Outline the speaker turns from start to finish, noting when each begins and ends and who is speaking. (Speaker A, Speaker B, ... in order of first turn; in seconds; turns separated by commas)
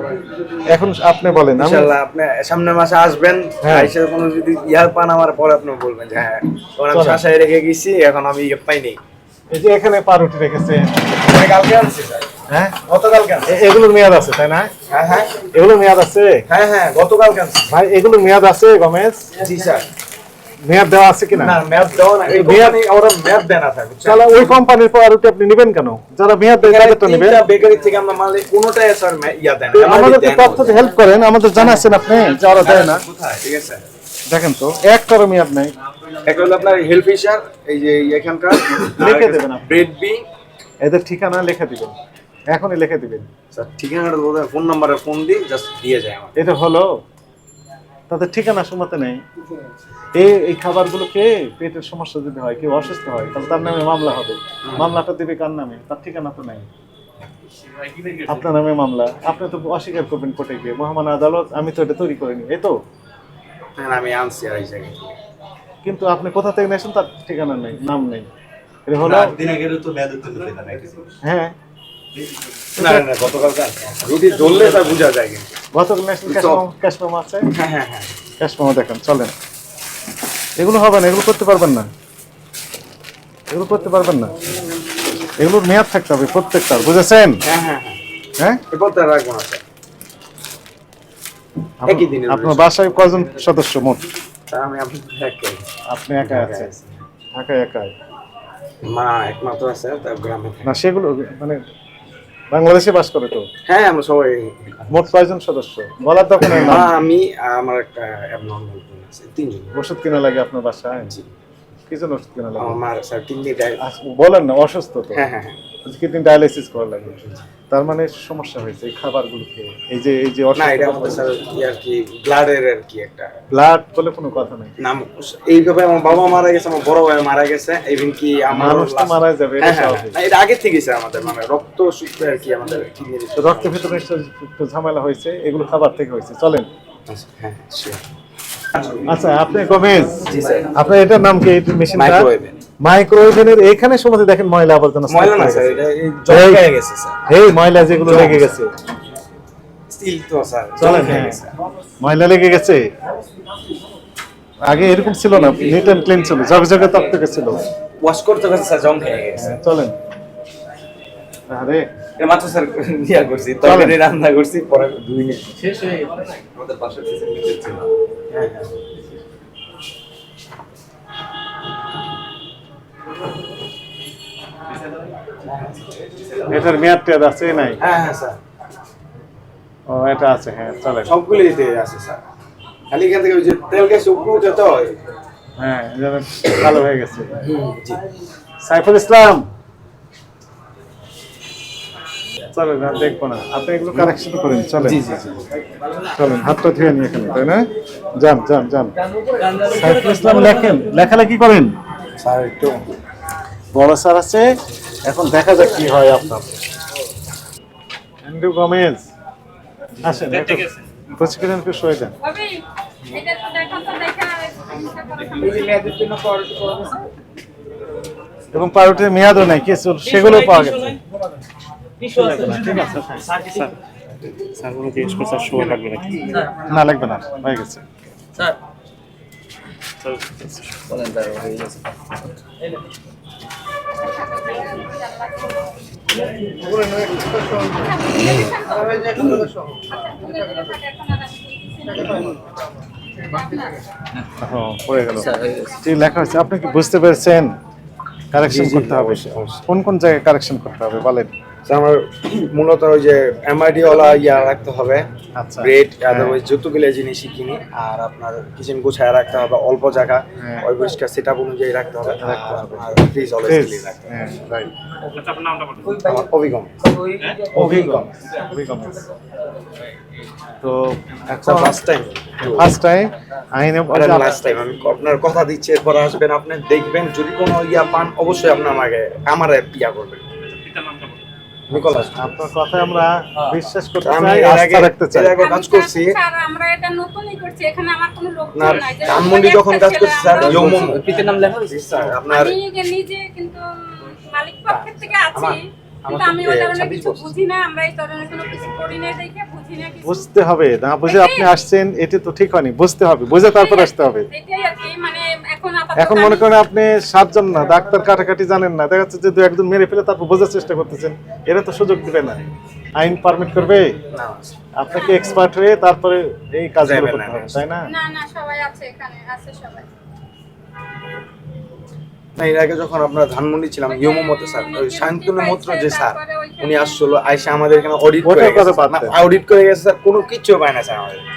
Speaker A: 0.7-1.9, Speaker B: 1.5-9.0, Speaker A: 3.6-3.9, Speaker A: 6.9-7.2, Speaker A: 9.5-11.1, Speaker B: 11.2-12.2, Speaker A: 12.5-12.8, Speaker B: 12.8-13.6, Speaker A: 13.4-14.7, Speaker B: 14.9-15.3, Speaker A: 15.5-16.4, Speaker B: 16.5-17.7, Speaker A: 17.7-19.3, Speaker B: 19.4-19.9, Speaker A: 20.6-21.6, Speaker B: 21.4-24.6, Speaker A: 22.2-22.8, Speaker A: 24.0-27.4, Speaker B: 26.6-30.8, Speaker A: 29.7-33.1, Speaker B: 31.6-33.9, Speaker A: 34.3-35.7, Speaker B: 36.2-40.2, Speaker A: 38.9-39.9, Speaker A: 40.8-41.9, Speaker A: 42.5-43.3, Speaker B: 43.5-46.4, Speaker A: 46.4-46.9, Speaker A: 48.1-49.2, Speaker A: 50.1-56.7, Speaker B: 54.6-55.0, Speaker A: 58.2-62.7, Speaker B: 63.8-65.2, Speaker A: 65.8-68.3, Speaker A: 68.8-69.3, Speaker B: 69.0-71.0, Speaker A: 71.2-71.5, Speaker A: 72.8-73.1, Speaker B: 72.8-75.5, Speaker A: 75.7-77.5, Speaker B: 76.2-76.6, Speaker B: 77.5-78.2, Speaker A: 78.4-79.3, Speaker A: 80.6-81.9, Speaker A: 83.5-84.3, Speaker A: 85.4-87.4, Speaker B: 87.4-88.0, Speaker B: 88.7-89.6, Speaker A: 91.8-94.1, Speaker B: 91.8-92.7, Speaker B: 94.5-95.7, Speaker A: 95.9-96.7, Speaker B: 96.2-97.0, Speaker A: 97.3-97.9, Speaker B: 98.8-100.8, Speaker A: 100.6-101.6, Speaker A: 102.5-103.5, Speaker B: 103.7-105.1, Speaker A: 104.9-106.9, Speaker B: 106.4-109.8, Speaker A: 109.7-111.1, Speaker B: 110.9-111.3, Speaker A: 111.9-112.8, Speaker B: 112.6-113.8, Speaker A: 113.8-115.2, Speaker B: 115.1-115.6, Speaker A: 115.8-117.2, Speaker B: 117.1-117.4, Speaker A: 117.7-121.2, Speaker B: 120.5-123.3, Speaker A: 123.5-124.7, Speaker B: 124.8-134.0, Speaker A: 128.5-130.2, Speaker A: 133.3-136.7, Speaker B: 137.1-138.0, Speaker B: 138.7-139.1, Speaker A: 139.0-142.3, Speaker B: 140.2-140.7, Speaker B: 141.9-142.6, Speaker A: 142.8-146.7, Speaker B: 145.1-147.2, Speaker A: 147.2-148.7, Speaker B: 148.0-148.6, Speaker B: 149.9-151.5, Speaker A: 150.8-151.4, Speaker A: 152.0-152.9, Speaker A: 154.6-157.6, Speaker B: 158.0-159.5, Speaker A: 159.4-159.9, Speaker A: 161.5-161.8, Speaker B: 162.2-165.6, Speaker A: 163.6-164.0, Speaker C: 165.6-167.7, Speaker B: 166.6-167.7, Speaker B: 168.3-168.7, Speaker B: 175.4-176.6, Speaker A: 176.5-177.8, Speaker B: 177.8-178.4, Speaker A: 179.9-181.1, Speaker B: 181.1-182.2, Speaker B: 182.9-184.8, Speaker A: 185.6-187.3, Speaker B: 187.4-188.0, Speaker A: 188.6-189.4, Speaker A: 192.5-195.0, Speaker B: 194.8-195.4, Speaker A: 196.2-198.9, Speaker C: 199.3-200.3, Speaker A: 199.6-201.7, Speaker B: 202.2-202.8, Speaker A: 203.7-204.5, Speaker A: 205.1-206.5, Speaker A: 208.2-209.1, Speaker A: 210.0-212.1, Speaker D: 210.3-210.8, Speaker E: 212.2-216.0, Speaker C: 215.4-217.0, Speaker A: 218.5-221.0, Speaker C: 220.1-221.0, Speaker C: 222.0-223.7, Speaker A: 222.1-223.4, Speaker D: 223.4-223.7, Speaker D: 224.5-226.3, Speaker C: 226.1-226.6, Speaker A: 226.6-227.8, Speaker D: 230.0-230.8, Speaker C: 230.9-231.9, Speaker E: 234.0-235.7, Speaker A: 236.6-237.7, Speaker E: 237.6-242.4, Speaker B: 238.9-239.3, Speaker C: 238.9-239.5, Speaker E: 243.2-243.8, Speaker A: 244.4-247.5, Speaker E: 245.0-247.1, Speaker A: 248.3-251.3, Speaker B: 248.4-249.6, Speaker B: 251.7-255.1, Speaker A: 255.4-256.4, Speaker B: 255.6-264.2, Speaker A: 260.4-260.7, Speaker A: 262.2-262.9, Speaker A: 263.4-264.7, Speaker D: 265.2-265.9, Speaker C: 265.8-266.2, Speaker B: 266.0-268.1, Speaker C: 266.8-267.9, Speaker A: 267.5-269.1, Speaker A: 270.6-271.8, Speaker B: 271.4-272.7, Speaker A: 272.5-274.4, Speaker B: 273.9-280.2, Speaker D: 280.6-281.2, Speaker B: 281.7-282.4, Speaker A: 281.7-285.4, Speaker B: 284.0-286.2, Speaker E: 285.4-291.0, Speaker B: 288.5-292.6, Speaker C: 290.5-292.1, Speaker E: 292.3-300.3, Speaker B: 294.7-297.3, Speaker A: 300.0-304.3, Speaker E: 301.0-301.6, Speaker E: 303.3-306.5, Speaker A: 305.9-312.4, Speaker A: 313.0-314.0, Speaker B: 314.1-314.6, Speaker A: 314.8-317.9, Speaker B: 316.8-317.7, Speaker E: 317.9-319.9, Speaker B: 322.4-331.2, Speaker E: 323.9-327.2, Speaker A: 328.2-329.1